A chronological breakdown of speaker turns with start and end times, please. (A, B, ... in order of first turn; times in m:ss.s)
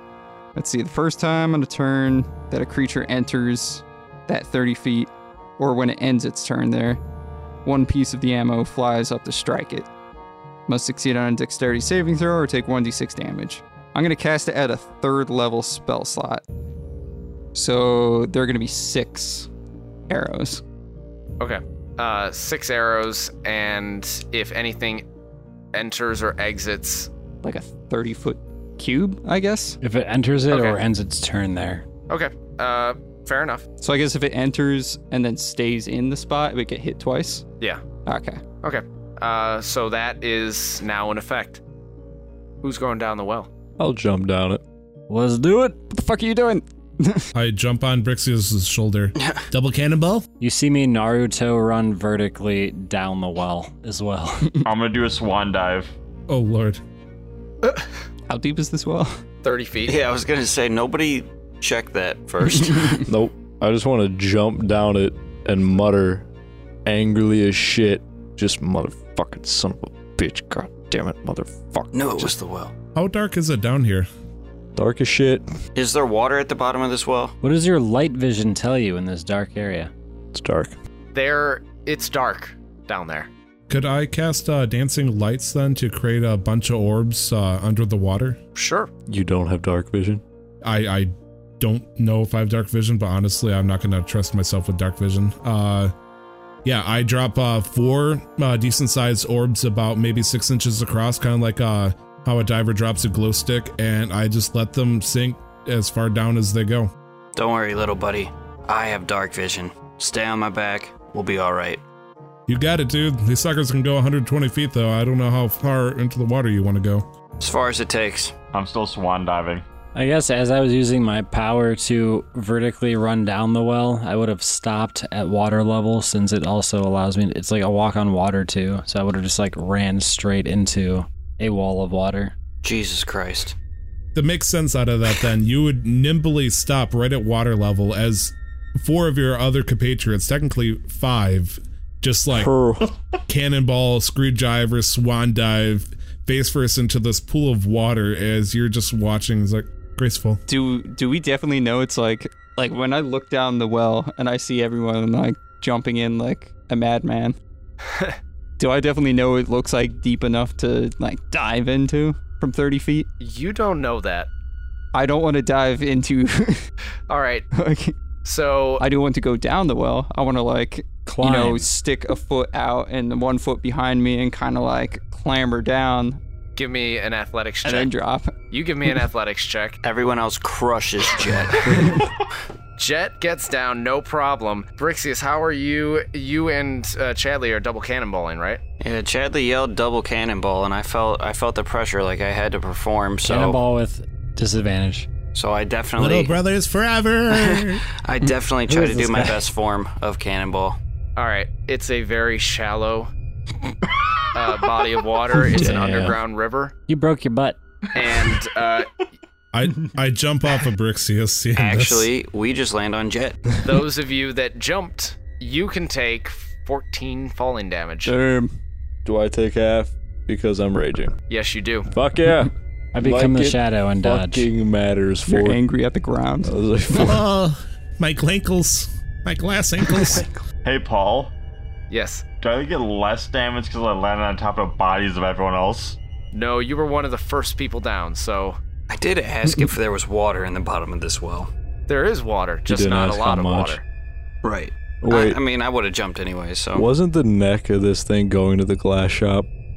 0:00.6-0:07.0 A
0:07.6-0:09.9 A
0:10.7-0:16.4 A
0:17.5-0:19.5 A
0:20.1-0:20.6 A
0:21.4-0:25.0 B
0:25.7-0:27.1 B
0:27.4-0:29.8 A
0:29.8-0:31.9 C
0:30.5-0:30.8 B
0:32.1-0:33.6 B
0:33.8-0:37.5 A
0:38.0-0:38.4 A
0:38.6-0:41.6 B
0:42.6-0:43.5 B
0:43.8-0:44.6 D
0:45.1-0:45.8 C
0:45.9-0:47.3 A
0:47.3-0:50.2 E
0:49.2-0:49.4 F
0:50.4-0:54.6 C
0:54.6-0:56.0 G
0:56.3-0:56.8 E
0:58.3-0:59.2 A
0:59.4-1:00.0 B
0:59.9-1:03.0 F
1:02.7-1:03.0 A
1:03.1-1:06.3 D
1:06.8-1:12.3 D
1:11.9-1:12.7 F
1:13.0-1:14.1 E
1:14.8-1:15.4 D
1:15.8-1:17.4 F
1:17.4-1:19.9 C
1:20.3-1:20.7 D
1:21.1-1:23.3 B
1:23.7-1:28.4 E
1:28.6-1:28.9 B
1:29.1-1:30.2 D
1:30.6-1:35.9 E
1:36.6-1:46.9 E
1:47.4-1:51.8 F
1:52.5-1:57.1 E
1:57.4-1:58.4 F
1:58.5-1:59.6 G
2:00.0-2:12.4 C
2:12.6-2:13.6 F
2:14.1-2:22.5 E
2:22.3-2:23.0 D
2:23.3-2:30.4 E
2:30.5-2:37.4 A
2:37.9-2:38.2 B
2:38.6-2:43.1 A
2:43.2-2:44.3 B
2:44.9-2:46.6 A
2:47.1-2:47.5 B
2:47.5-2:48.0 A
2:48.2-2:48.8 B
2:48.8-2:56.2 A
2:51.1-2:51.7 C
2:56.6-2:59.8 B
2:57.6-2:58.4 A
2:59.8-3:02.0 F
3:02.8-3:08.6 B
3:08.8-3:13.6 F
3:13.2-3:15.1 C
3:15.3-3:16.4 F
3:16.0-3:17.8 E
3:17.3-3:20.8 F
3:18.7-3:19.3 C
3:21.2-3:23.1 B
3:24.3-3:26.7 B
3:25.4-3:26.2 D
3:26.9-3:27.6 C
3:27.9-3:28.9 B
3:29.5-3:32.1 E
3:31.6-3:33.4 F
3:33.6-3:38.1 B
3:38.1-3:38.5 D
3:39.0-3:41.1 D
3:41.3-3:41.9 B
3:41.9-3:45.6 D
3:43.0-3:44.5 C
3:45.3-3:47.2 A
3:46.4-3:47.1 D
3:46.9-3:50.3 E
3:50.0-3:50.3 A
3:50.6-3:51.3 G
3:51.9-3:52.2 B
3:52.4-3:56.0 G
3:56.3-3:58.6 B
3:58.9-4:01.5 F
4:01.9-4:03.8 B
4:02.7-4:03.8 D
4:04.4-4:06.9 F
4:05.0-4:05.4 D
4:06.8-4:09.5 D